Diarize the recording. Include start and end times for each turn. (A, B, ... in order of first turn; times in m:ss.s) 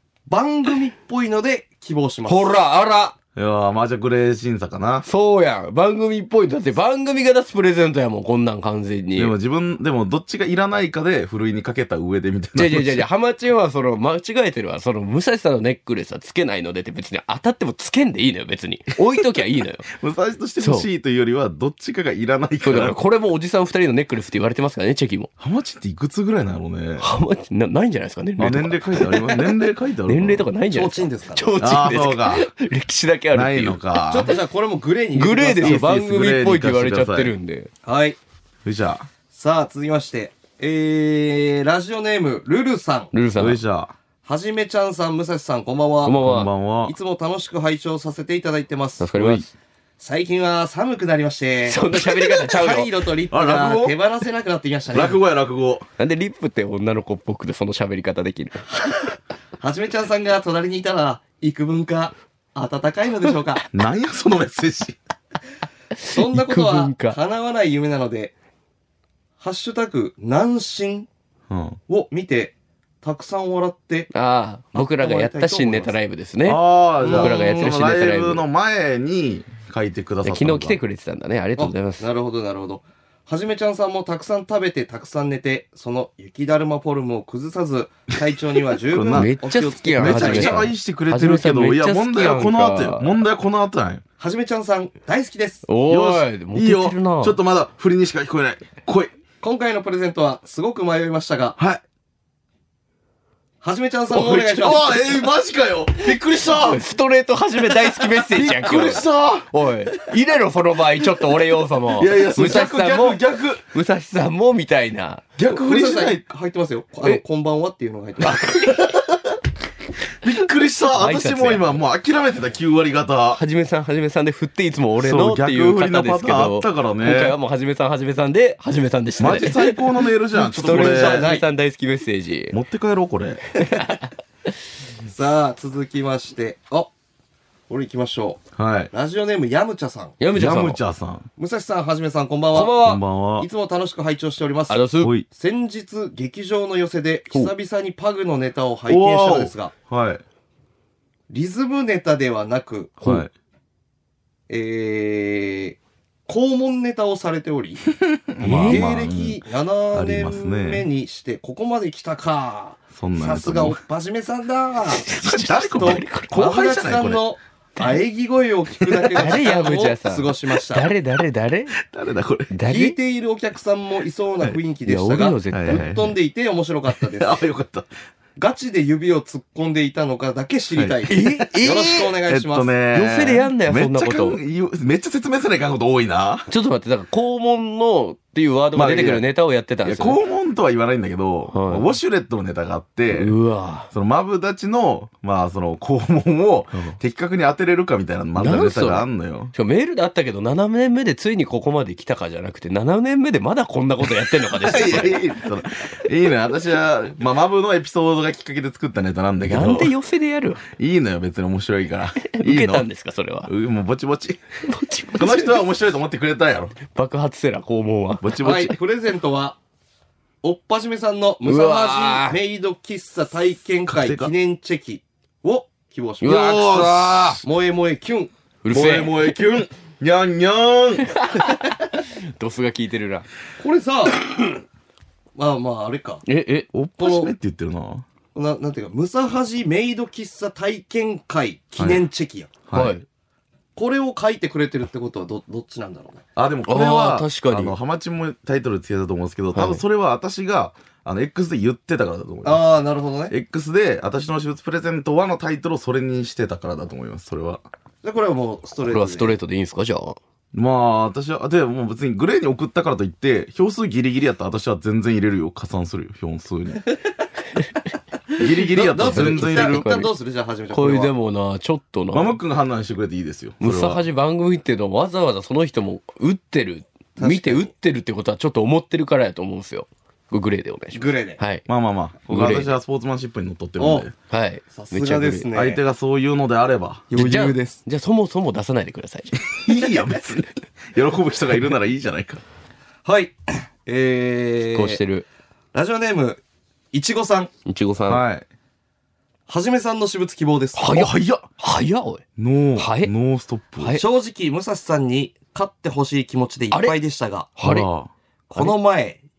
0:00.3-0:02.5 A
0:02.3-0:03.1 B
0:03.3-0:05.0 C
0:05.0-0:09.3 B
0:09.2-0:13.0 C
0:12.6-0:19.8 B
0:19.9-0:23.0 C
0:20.6-0:20.9 B
0:22.6-0:25.3 B
0:25.4-0:27.0 C
0:27.0-0:33.8 B
0:28.4-0:30.5 C
0:30.7-0:31.5 A
0:31.6-0:32.5 C
0:33.3-0:34.3 C
0:34.1-0:35.8 A
0:35.1-0:37.7 B
0:35.6-0:37.3 C
0:37.8-0:38.2 A
0:38.6-0:39.1 C
0:39.3-0:43.1 A
0:43.1-0:43.6 B
0:43.4-0:43.9 C
0:44.2-0:46.2 A
0:46.0-0:46.5 B
0:46.2-0:46.9 C
0:46.8-0:49.1 A
0:49.0-0:49.5 B
0:49.1-0:49.4 C
0:50.0-0:55.2 A
0:51.7-0:52.9 B
0:53.3-0:53.9 C
0:54.9-0:55.8 C
0:56.0-0:58.7 B
0:59.6-1:03.6 A
1:03.7-1:05.0 C
1:06.0-1:07.2 B
1:06.1-1:08.3 A
1:09.4-1:11.1 A
1:11.5-1:11.8 C
1:11.9-1:14.1 A
1:14.1-1:18.4 B
1:14.7-1:15.9 A
1:16.4-1:20.8 C
1:17.0-1:17.7 A
1:20.2-1:22.0 B
1:21.6-1:30.7 A
1:28.9-1:29.3 C
1:29.1-1:33.2 B
1:30.0-1:34.0 C
1:34.2-1:35.6 A
1:35.6-1:37.4 B
1:35.9-1:39.1 C
1:39.4-1:41.6 A
1:41.6-1:41.8 C
1:43.6-1:45.1 A
1:44.1-1:46.8 C
1:46.4-1:55.2 B
1:48.2-1:49.5 C
1:52.0-1:53.6 C
1:55.4-1:56.2 C
1:55.4-1:58.4 A
1:58.2-1:58.9 B
1:58.6-1:59.0 C
2:00.2-2:03.4 C
2:00.9-2:01.8 B
2:03.3-2:09.8 B
2:05.0-2:07.4 C
2:09.2-2:11.3 C
2:10.3-2:12.6 B
2:10.5-2:11.4 A
2:12.5-2:13.4 C
2:13.6-2:14.1 B
2:15.1-2:16.9 A
2:17.7-2:18.4 A
2:18.6-2:18.9 C
2:18.9-2:20.2 A
2:20.2-2:20.8 B
2:20.3-2:21.3 C
2:21.4-2:29.7 A
2:22.5-2:23.0 B
2:22.8-2:23.5 C
2:24.7-2:25.1 B
2:25.0-2:25.2 C
2:28.9-2:30.2 C
2:31.3-2:33.0 A
2:33.0-2:33.3 C
2:34.5-2:35.8 A
2:36.3-2:37.8 A
2:38.3-2:39.4 C
2:38.4-2:38.9 B
2:38.5-2:45.1 A
2:39.9-2:40.8 C
2:42.9-2:43.8 C
2:45.0-2:46.4 B
2:45.2-2:47.2 C
2:45.7-2:50.9 A
2:49.2-2:51.8 B
2:51.8-2:52.5 C
2:52.5-2:53.0 B
2:52.7-2:57.4 A
2:54.8-2:55.9 B
2:55.5-2:56.1 C
2:57.0-2:57.9 C
2:58.4-3:02.7 A
3:01.1-3:02.1 B
3:02.2-3:06.5 C
3:02.9-3:04.4 B
3:06.5-3:10.2 B
3:08.7-3:09.2 C
3:09.8-3:13.3 C
3:11.5-3:11.9 B
3:13.1-3:13.9 B
3:13.9-3:19.5 C
3:18.4-3:25.2 B
3:24.5-3:29.9 C
3:29.5-3:30.6 B
3:30.7-3:32.9 C
3:32.3-3:33.5 B
3:33.4-3:34.4 C
3:34.6-3:35.6 B
3:35.1-3:36.8 C
3:36.9-3:38.4 B
3:38.2-3:38.8 C
3:38.4-3:39.6 A
3:40.4-3:46.9 A
3:41.4-3:42.4 B
3:43.9-3:44.3 C
3:46.2-3:47.4 B
3:46.3-3:47.4 C
3:47.4-3:48.3 A
3:48.6-3:49.3 B
3:48.7-3:51.2 C
3:51.1-3:53.3 B
3:53.6-3:54.2 A
3:55.4-3:56.2 A
3:56.2-3:56.7 B
3:56.7-3:58.0 C
3:57.0-3:57.3 A
3:58.3-4:02.5 A
4:01.8-4:02.0 C
4:02.7-4:03.0 C
4:02.7-4:03.0 B
4:03.8-4:06.2 A
4:06.4-4:12.6 C
4:06.7-4:07.7 B
4:09.5-4:09.8 B
4:12.4-4:13.3 A
4:13.3-4:17.6 C
4:18.0-4:19.4 A
4:18.8-4:20.2 B
4:20.5-4:26.8 C
4:28.4-4:29.8 C
4:28.7-4:31.1 A
4:28.8-4:30.1 B
4:30.7-4:32.4 B
4:32.1-4:34.0 C
4:33.6-4:41.6 B
4:37.2-4:37.7 A
4:40.9-4:41.4 A
4:41.6-4:44.1 C
4:42.3-4:42.7 B
4:43.8-4:44.1 A
4:44.3-4:45.5 B
4:44.7-4:45.8 A
4:45.5-4:47.1 C
4:47.1-4:47.8 A
4:47.1-4:49.4 B
4:49.5-4:52.4 C
4:53.0-4:55.0 A
4:54.7-4:55.2 B
4:55.7-4:56.4 A
4:56.9-4:57.5 A
4:57.6-4:58.2 B
4:58.1-4:58.4 C
4:59.5-5:01.1 A
5:00.8-5:02.2 B
5:00.9-5:01.4 C
5:02.4-5:04.0 C
5:02.8-5:03.1 B
5:03.8-5:04.0 B
5:04.0-5:07.6 A
5:06.7-5:07.0 B
5:07.6-5:07.9 B
5:07.6-5:08.1 C
5:08.5-5:09.2 A